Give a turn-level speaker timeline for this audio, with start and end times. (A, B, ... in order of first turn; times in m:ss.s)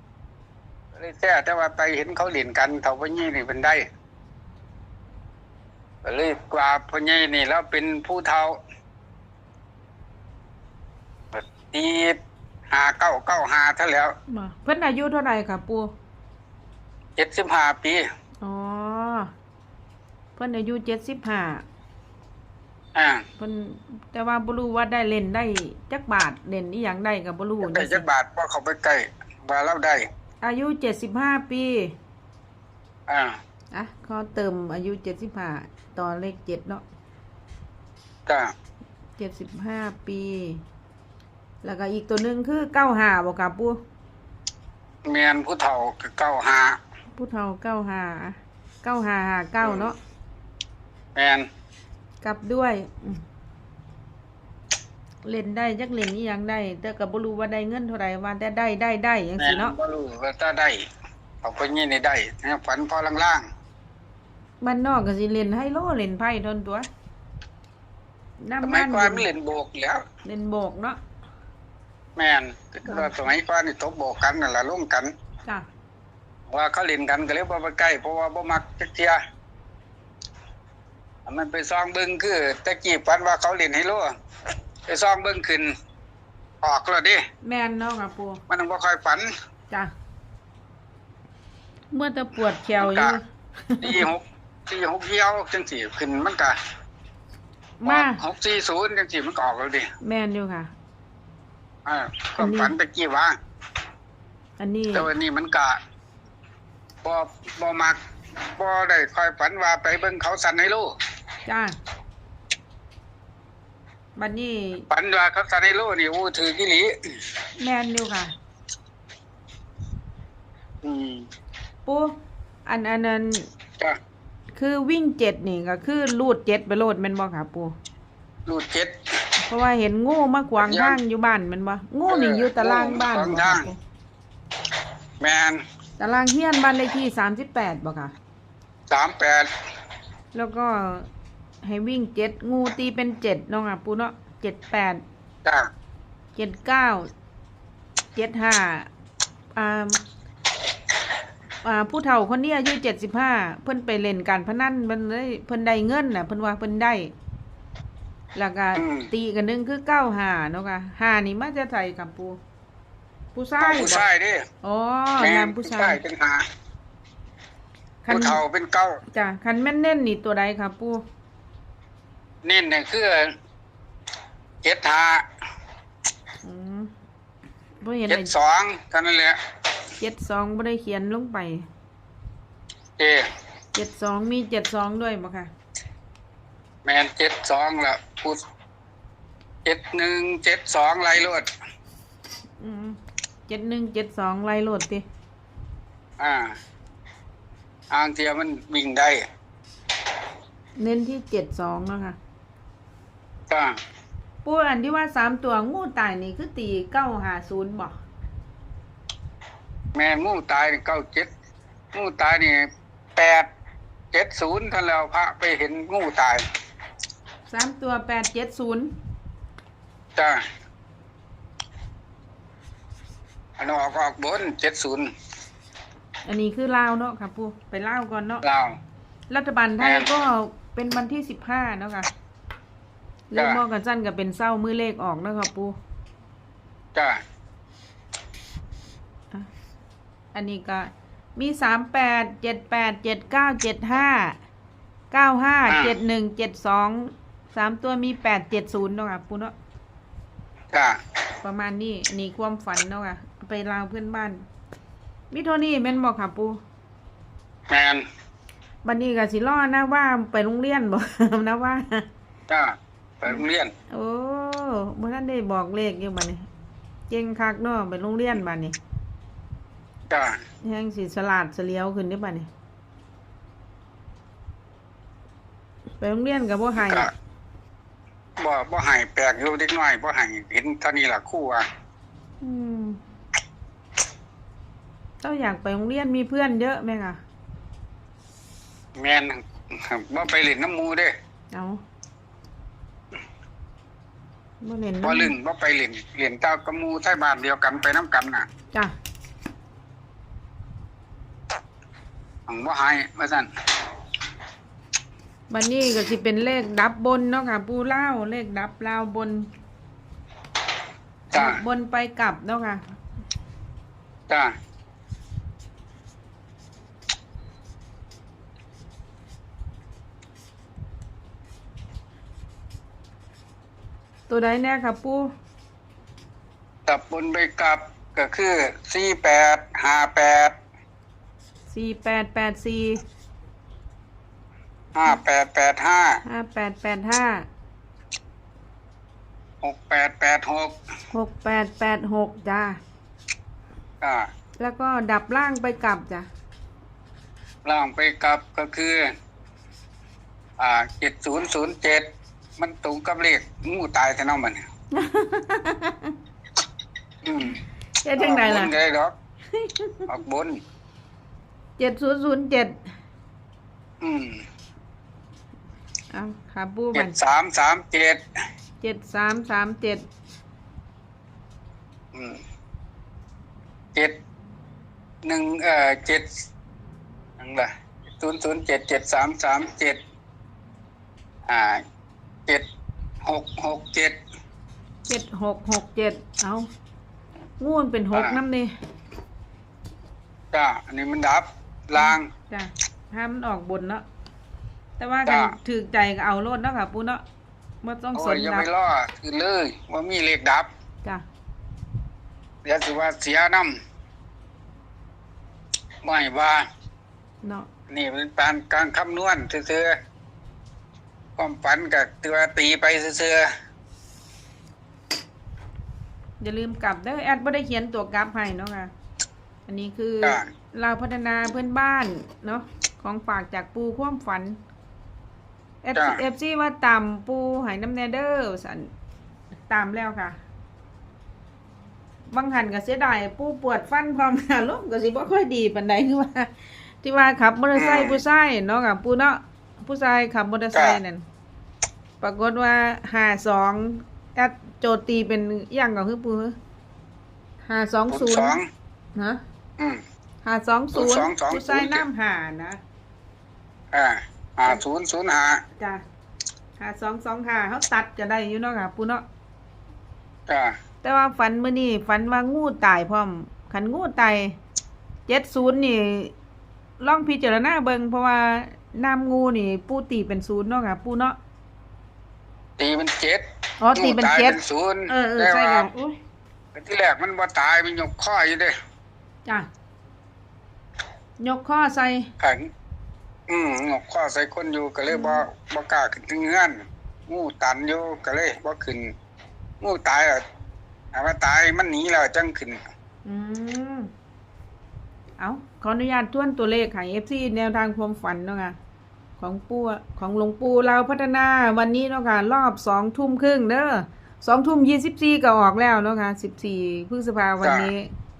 0:00.9-0:03.8 A
0:06.0-0:08.6 A
0:11.3-0:12.2 A
0:12.7-0:14.1 A
0:14.3-0:15.9 B
0:17.2-0:18.0 A
0:18.4-0:19.3 B
0:20.4-0:21.6 B
0:22.9-0:23.2 A
0:23.4-0:28.1 B
0:27.6-0:30.1 A
0:30.4-0:31.9 B
0:33.1-0:33.4 A
0:33.7-0:36.8 B
0:38.2-0:38.5 A
0:39.2-0:40.6 B
0:41.6-0:43.8 B
0:45.0-0:46.8 A
0:47.1-0:50.0 B
0:49.6-0:49.9 A
0:51.1-0:51.5 A
0:52.2-0:53.2 B
0:55.2-0:59.7 B
0:59.4-1:00.8 A
1:01.4-1:03.4 A
1:04.6-1:06.9 B
1:08.4-1:09.3 B
1:08.6-1:10.0 A
1:10.2-1:11.0 B
1:12.2-1:15.1 A
1:12.9-1:13.1 B
1:16.5-1:19.2 A
1:21.2-1:24.1 A
1:24.9-1:25.7 A
1:26.6-1:27.2 A
1:27.4-1:28.4 B
1:28.5-1:29.3 A
1:31.9-1:34.1 B
1:32.8-1:33.2 A
1:33.8-1:36.6 A
1:37.8-1:38.2 B
1:37.8-1:39.9 A
1:40.0-1:40.7 B
1:41.8-1:43.3 A
1:42.4-1:42.7 B
1:44.6-1:45.1 B
1:44.9-1:45.8 A
1:47.0-1:48.0 A
1:48.6-1:50.9 A
1:51.4-1:51.8 B
1:54.2-1:54.8 B
1:54.9-1:56.9 A
1:57.6-1:58.3 B
2:00.8-2:01.3 A
2:01.8-2:02.1 B
2:02.6-2:03.5 B
2:04.6-2:07.7 B
2:08.4-2:08.9 A
2:09.4-2:13.8 B
2:10.6-2:11.0 A
2:12.1-2:13.7 A
2:15.2-2:15.6 A
2:16.0-2:18.1 B
2:18.9-2:19.5 A
2:20.3-2:21.1 B
2:21.6-2:25.0 B
2:26.4-2:27.1 B
2:28.1-2:28.9 B
2:29.5-2:30.0 B
2:31.6-2:37.1 B
2:38.3-2:42.4 B
2:38.8-2:39.1 A
2:43.3-2:44.0 B
2:43.6-2:44.4 A
2:44.6-2:46.0 B
2:45.2-2:46.4 A
2:48.0-2:48.4 B
2:48.1-2:49.0 A
2:49.1-2:51.0 B
2:52.4-2:53.3 A
2:54.6-2:55.2 A
2:56.4-2:56.9 B
2:57.8-2:58.3 B
2:58.1-2:59.4 A
3:00.0-3:01.7 B
3:03.0-3:03.3 A
3:03.7-3:05.5 B
3:06.8-3:08.4 A
3:09.6-3:11.4 A
3:12.6-3:15.0 B
3:16.2-3:16.5 A
3:17.9-3:19.2 A
3:20.8-3:22.2 B
3:23.5-3:23.7 A
3:24.4-3:28.0 B
3:29.9-3:31.3 A
3:31.9-3:33.5 A
3:34.1-3:36.4 A
3:37.5-3:38.9 B
3:40.2-3:40.4 A
3:43.6-3:45.1 A
3:46.2-3:48.4 B
3:48.4-3:48.8 A
3:49.3-3:52.1 B
3:49.8-3:50.1 A
3:53.3-3:55.8 B
3:53.3-3:53.6 A
3:56.9-3:57.2 A
4:00.3-4:04.4 B
4:05.1-4:09.5 B
4:05.7-4:05.9 A
4:10.7-4:11.0 A
4:11.4-4:14.4 B
4:15.3-4:16.6 B
4:17.7-4:18.0 A
4:18.8-4:22.0 B
4:22.5-4:23.7 A
4:23.3-4:26.4 B
4:27.1-4:28.8 B
4:30.1-4:30.4 A
4:30.6-4:32.5 B
4:36.0-4:37.1 B
4:36.8-4:37.1 A
4:38.4-4:41.7 A
4:42.4-4:43.0 B
4:45.2-4:47.2 B
4:49.0-4:51.1 A
4:51.5-4:51.8 B
4:54.6-4:55.3 B
4:55.0-4:58.5 A
5:02.5-5:03.5 A
5:05.5-5:09.5 B
5:11.3-5:11.6 A
5:11.3-5:12.8 B
5:24.3-5:25.3 B
5:26.9-5:30.5 A
5:31.7-5:33.0 B
5:34.9-5:36.2 A
5:36.2-5:37.4 B
5:39.6-5:40.7 A
5:41.1-5:42.8 B
5:44.0-5:44.3 A
5:44.6-5:46.3 B
5:47.6-5:49.1 A
5:50.6-5:52.0 A
5:52.6-5:54.6 A
5:54.9-5:56.1 B
5:57.2-5:57.6 A
5:58.0-5:58.7 B
5:58.2-5:59.1 A
5:59.5-6:00.1 B
6:00.1-6:00.6 A
6:01.8-6:02.8 B
6:04.0-6:04.4 A
6:06.1-6:07.2 B
6:06.9-6:08.2 A
6:08.8-6:10.0 B
6:12.1-6:12.4 A
6:15.2-6:16.5 A
6:17.4-6:20.0 A
6:21.5-6:21.8 A
6:23.2-6:24.2 A
6:25.1-6:26.7 B
6:27.6-6:28.7 B
6:28.1-6:28.4 A
6:30.5-6:32.3 A
6:32.0-6:34.0 B
6:35.0-6:37.2 B
6:35.2-6:35.6 A
6:37.8-6:38.6 B
6:38.1-6:40.7 A
6:42.6-6:43.7 A
6:46.0-6:46.6 A
6:47.4-6:47.7 B
6:47.9-6:49.9 A
6:51.4-6:53.5 A
6:56.4-6:58.9 B
6:59.7-7:04.6 B
7:05.8-7:08.9 B
7:05.9-7:06.2 A
7:09.7-7:10.4 B
7:12.3-7:21.2 B
7:17.7-7:18.2 A
7:20.7-7:21.0 A
7:22.2-7:26.6 B
7:27.6-7:28.6 B
7:28.1-7:28.7 A
7:29.1-7:29.4 B
7:30.4-7:32.8 B
7:30.9-7:32.0 A
7:33.9-7:35.6 A
7:36.8-7:39.2 B
7:40.5-7:40.7 A
7:41.0-7:44.6 B
7:45.3-7:46.3 B
7:47.0-7:51.4 B
7:52.8-7:55.9 A
7:53.8-7:56.2 B
7:56.7-7:58.7 A
8:01.4-8:02.3 B
8:02.4-8:02.7 A
8:03.5-8:09.1 A
8:05.1-8:05.4 B
8:09.8-8:10.4 A
8:11.1-8:12.8 A
8:13.2-8:14.1 B
8:15.4-8:18.8 B
8:19.4-8:28.1 B
8:27.6-8:27.9 A